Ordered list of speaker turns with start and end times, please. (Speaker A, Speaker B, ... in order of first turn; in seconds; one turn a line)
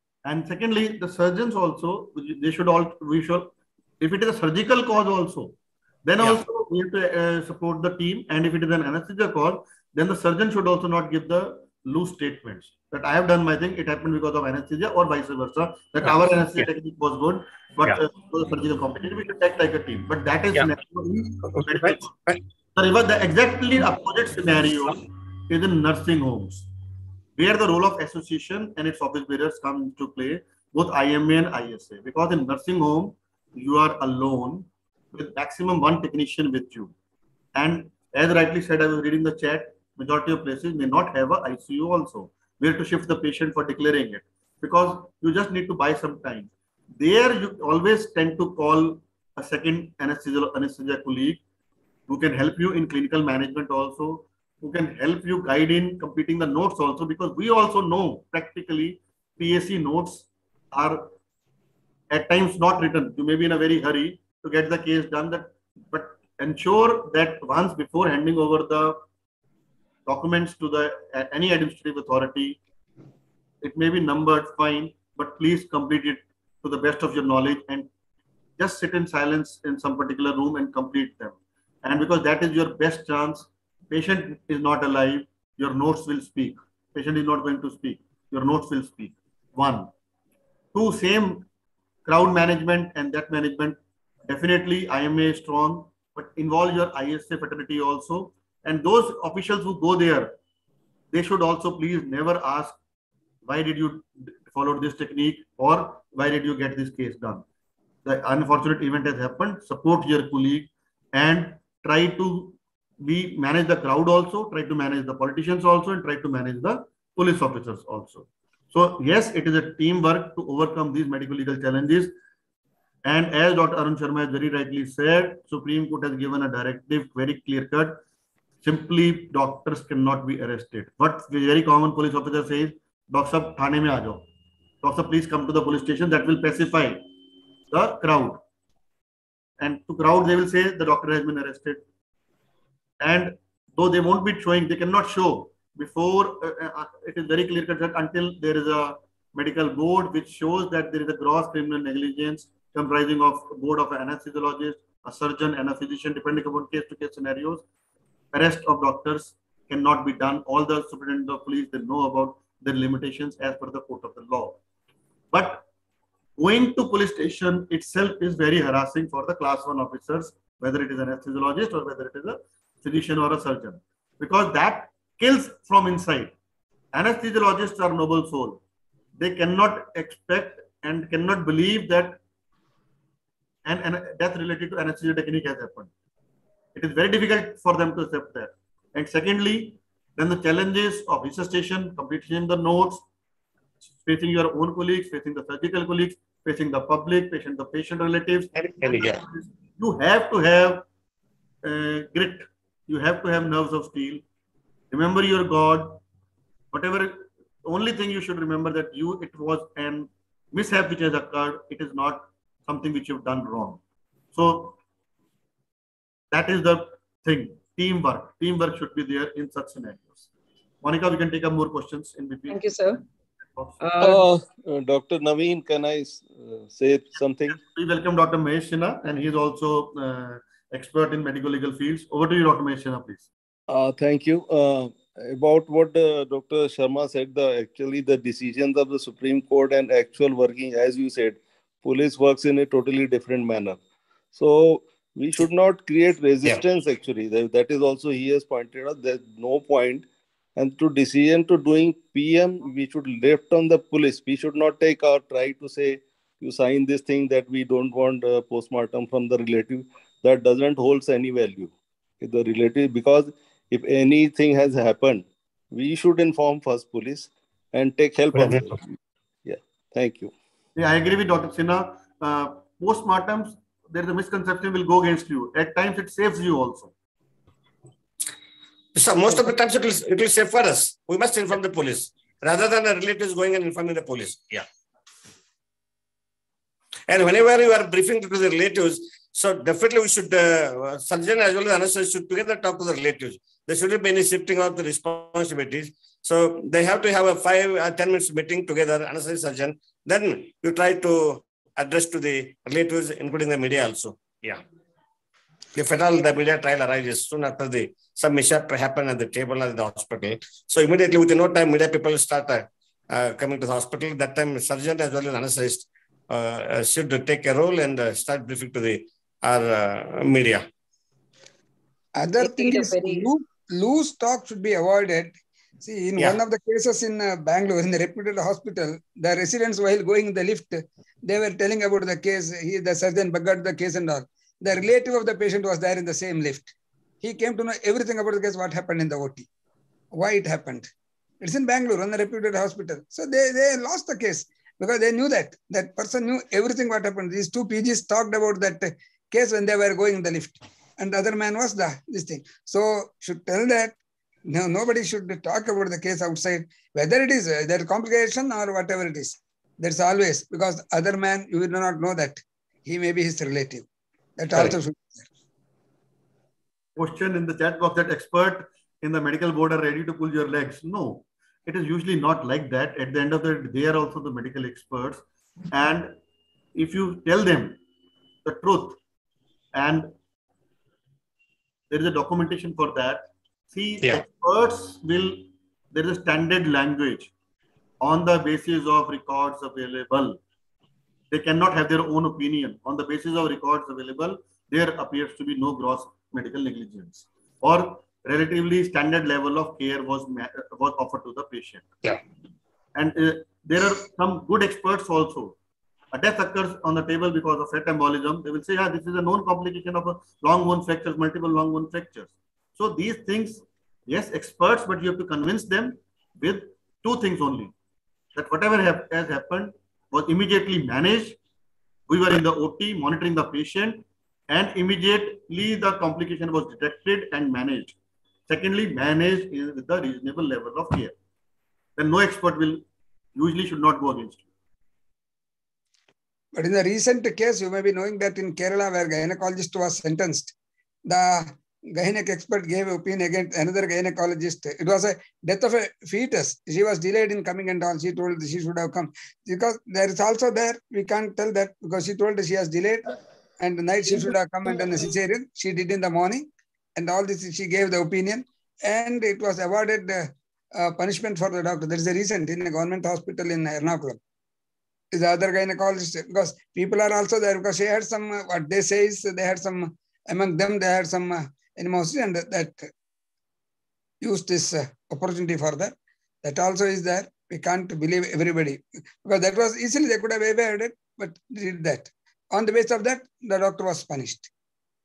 Speaker A: 0.2-5.5
Speaker A: 6.0-22.1
Speaker B: 16.1-16.6
Speaker B: 21.4-22.4
Speaker A: 22.8-26.7
Speaker A: 27.4-36.9
Speaker A: 37.5-51.4
Speaker A: 52.1-61.1
Speaker A: 62.1-69.0
Speaker A: 70.1-72.6
Speaker A: 73.6-77.9
Speaker A: 78.6-89.9
Speaker A: 90.7-91.5
Speaker A: 92.1-100.3
Speaker A: 101.1-102.8
Speaker A: 103.5-107.5
Speaker A: 108.0-122.1
Speaker A: 123.0-128.0
Speaker A: 128.6-134.3
Speaker A: 134.8-137.1
Speaker A: 137.7-138.4
Speaker A: 139.6-141.8
Speaker A: 143.0-157.6
Speaker A: 158.3-164.6
Speaker A: 165.3-165.7
Speaker A: 166.4-176.3
Speaker A: 176.9-178.6
Speaker A: 179.2-182.2
Speaker A: 183.7-185.9
Speaker A: 186.8-193.1
Speaker A: 194.0-200.9
Speaker B: 198.5-199.2
Speaker A: 201.6-204.2
Speaker A: 204.9-206.0
Speaker A: 206.7-213.8
Speaker A: 214.3-214.8
Speaker A: 216.3-220.2
Speaker A: 220.8-222.6
Speaker C: 222.5-223.0
Speaker C: 223.8-224.2
Speaker D: 224.0-227.6
Speaker A: 227.5-233.3
Speaker D: 233.7-243.8
Speaker D: 244.3-250.1
Speaker D: 250.6-268.9
Speaker B: 268.4-268.6
Speaker D: 269.4-270.3
Speaker A: 270.8-276.9
Speaker B: 279.0-284.7
Speaker B: 287.1-304.6
Speaker B: 305.8-320.6
Speaker E: 322.2-339.5
Speaker C: 322.4-323.3
Speaker E: 340.1-354.0
Speaker E: 354.5-363.9
Speaker E: 364.4-365.2
Speaker A: 367.0-376.2
Speaker A: 376.8-377.8
Speaker A: 378.4-379.0
Speaker A: 379.7-380.1
Speaker A: 381.9-387.3
Speaker A: 388.0-390.4
Speaker A: 391.3-401.9
Speaker A: 402.9-405.6
Speaker A: 406.1-417.7
Speaker A: 418.4-421.4
Speaker A: 422.1-428.0
Speaker A: 428.5-431.1
Speaker A: 432.0-434.4
Speaker E: 436.6-440.5
Speaker E: 441.1-464.2
Speaker E: 465.1-472.9
Speaker E: 474.2-484.5